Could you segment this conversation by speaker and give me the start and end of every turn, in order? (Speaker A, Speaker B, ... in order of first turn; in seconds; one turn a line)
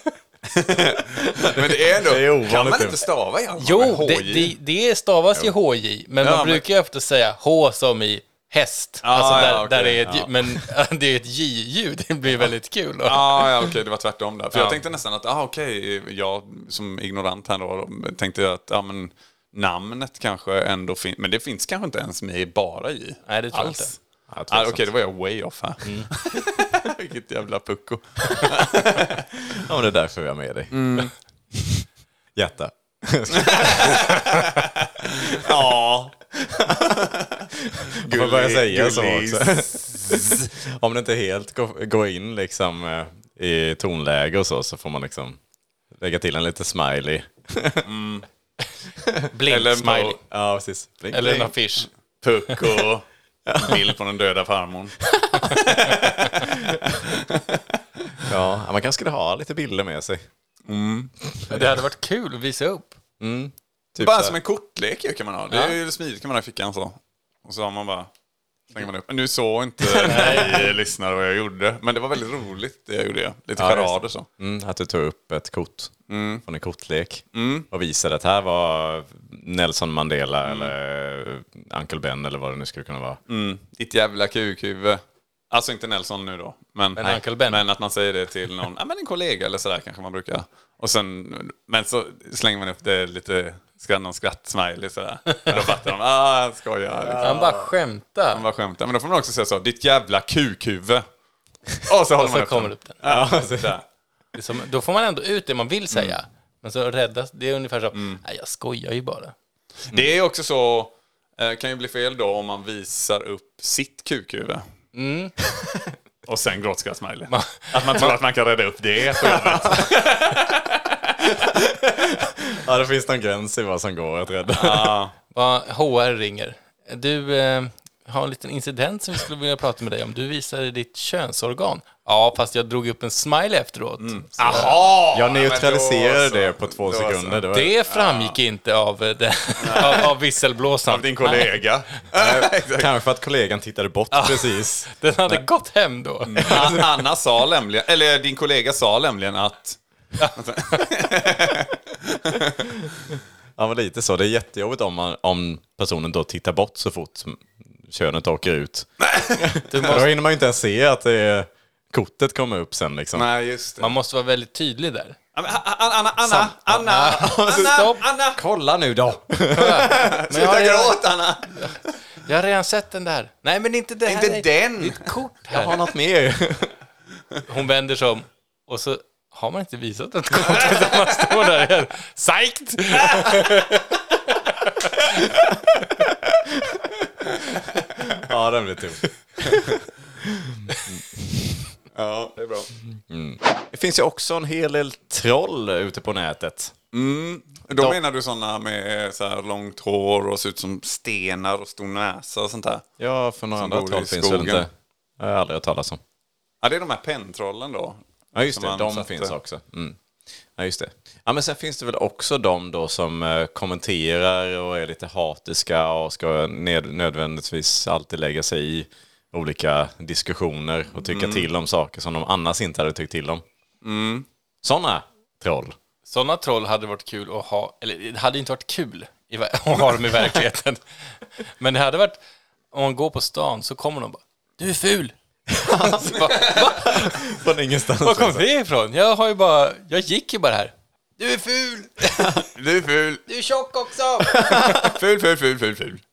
Speaker A: 0.5-4.5
Speaker B: 1.0-3.1
Speaker C: 3.6-13.7
Speaker A: 6.2-6.6
Speaker A: 9.0-10.0
Speaker B: 10.1-10.6
Speaker A: 13.0-29.2
Speaker C: 14.5-14.8
Speaker C: 23.2-23.9
Speaker B: 24.3-24.9
Speaker C: 25.8-26.1
Speaker B: 29.4-34.5
Speaker A: 30.7-31.1
Speaker A: 33.3-35.8
Speaker B: 35.2-45.4
Speaker A: 37.0-40.5
Speaker B: 45.9-47.9
Speaker A: 47.8-48.2
Speaker B: 49.0-49.3
Speaker C: 49.3-50.2
Speaker A: 49.5-50.2
Speaker B: 50.2-51.5
Speaker C: 51.1-51.9
Speaker A: 52.2-53.1
Speaker B: 53.5-53.9
Speaker A: 53.6-58.3
Speaker B: 55.2-55.5
Speaker B: 56.4-57.0
Speaker B: 58.2-60.2
Speaker A: 60.7-61.1
Speaker C: 61.5-63.0
Speaker B: 63.2-64.3
Speaker A: 64.0-68.1
Speaker C: 65.5-65.8
Speaker A: 68.7-74.3
Speaker B: 69.9-70.7
Speaker C: 70.0-70.7
Speaker B: 73.6-83.2
Speaker A: 76.1-76.4
Speaker A: 77.3-77.7
Speaker A: 80.4-80.7
Speaker A: 83.3-97.4
Speaker C: 87.0-87.6
Speaker B: 97.0-97.7
Speaker C: 97.2-98.4
Speaker A: 98.3-101.0
Speaker A: 101.8-103.8
Speaker C: 102.2-103.0
Speaker B: 103.0-103.8
Speaker C: 104.3-109.3
Speaker A: 107.9-108.2
Speaker A: 109.9-114.6
Speaker C: 114.9-115.3
Speaker A: 116.2-121.1
Speaker C: 117.3-118.1
Speaker B: 119.3-119.9
Speaker B: 121.2-125.0
Speaker A: 124.5-125.1
Speaker C: 125.3-134.8
Speaker A: 134.0-138.4
Speaker B: 135.1-137.8
Speaker C: 137.5-141.6
Speaker A: 139.6-140.1
Speaker A: 140.9-142.9
Speaker B: 142.1-145.4
Speaker C: 144.1-146.6
Speaker A: 146.3-149.8
Speaker B: 146.3-146.9
Speaker C: 150.2-150.8
Speaker A: 150.3-152.7
Speaker B: 153.6-163.3
Speaker A: 159.0-159.5
Speaker C: 159.7-160.1
Speaker A: 163.1-163.9
Speaker C: 163.8-165.2
Speaker A: 165.3-168.4
Speaker C: 166.2-168.0
Speaker B: 167.2-170.1
Speaker C: 169.5-175.8
Speaker A: 169.9-171.8
Speaker A: 174.1-175.2
Speaker B: 175.5-176.7
Speaker C: 177.4-185.4
Speaker B: 187.8-191.6
Speaker A: 189.4-189.7
Speaker A: 191.9-192.7
Speaker B: 192.9-196.7
Speaker A: 196.9-202.8
Speaker B: 197.7-198.0
Speaker B: 203.0-206.0
Speaker A: 203.6-204.6
Speaker A: 206.6-209.3
Speaker B: 208.3-210.0
Speaker B: 210.6-223.4
Speaker A: 221.0-221.4
Speaker A: 223.8-224.3
Speaker B: 224.6-225.8
Speaker C: 226.1-230.8
Speaker C: 231.4-232.2
Speaker C: 232.7-237.4
Speaker B: 235.5-238.4
Speaker A: 236.3-236.7
Speaker C: 238.0-242.4
Speaker A: 242.4-243.3
Speaker C: 243.3-244.9
Speaker B: 244.3-244.9
Speaker A: 244.7-246.0